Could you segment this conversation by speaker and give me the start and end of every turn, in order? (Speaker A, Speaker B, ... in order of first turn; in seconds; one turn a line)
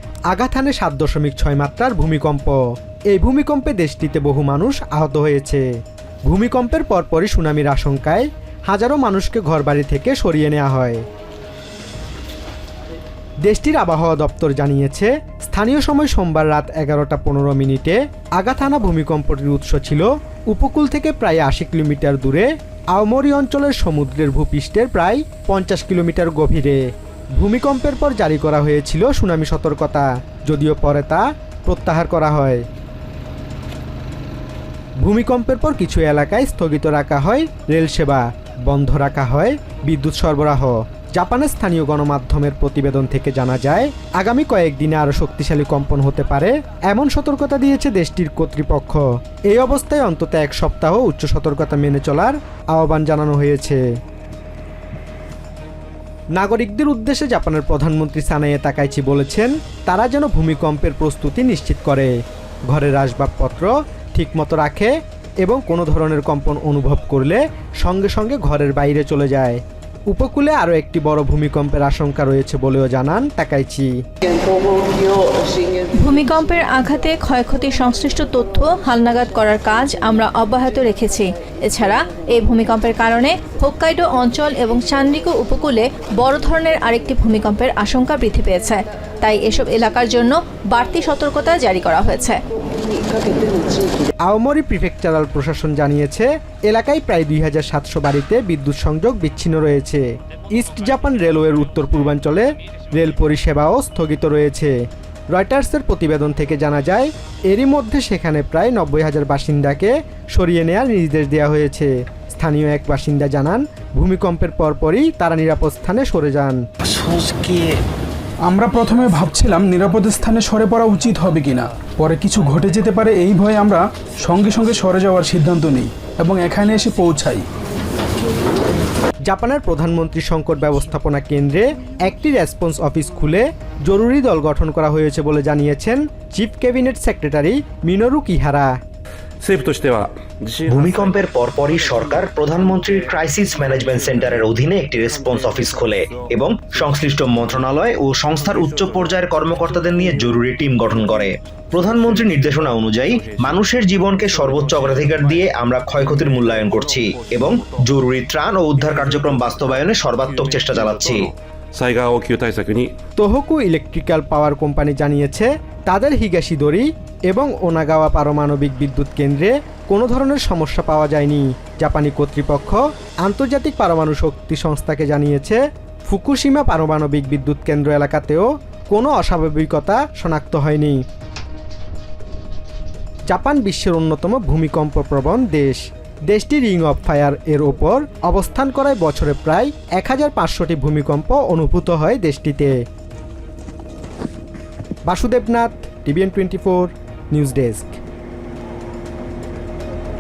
Speaker A: 0.3-2.6
Speaker A: 3.1-5.7
Speaker A: 6.3-11.1
Speaker A: 13.4-26.8
Speaker A: 27.4-32.6
Speaker A: 35.0-53.8
Speaker A: 56.4-62.1
Speaker A: 62.7-64.9
Speaker A: 65.4-73.9
Speaker B: 76.0-92.4
Speaker A: 94.3-104.7
Speaker A: 105.3-116.6
Speaker C: 116.9-117.7
Speaker D: 118.5-127.5
Speaker A: 129.3-138.8
Speaker E: 139.4-147.7
Speaker C: 140.7-161.3
Speaker E: 148.3-157.9
Speaker E: 158.8-162.9
Speaker A: 163.2-181.0
Speaker A: 183.3-192.8
Speaker A: 195.1-198.0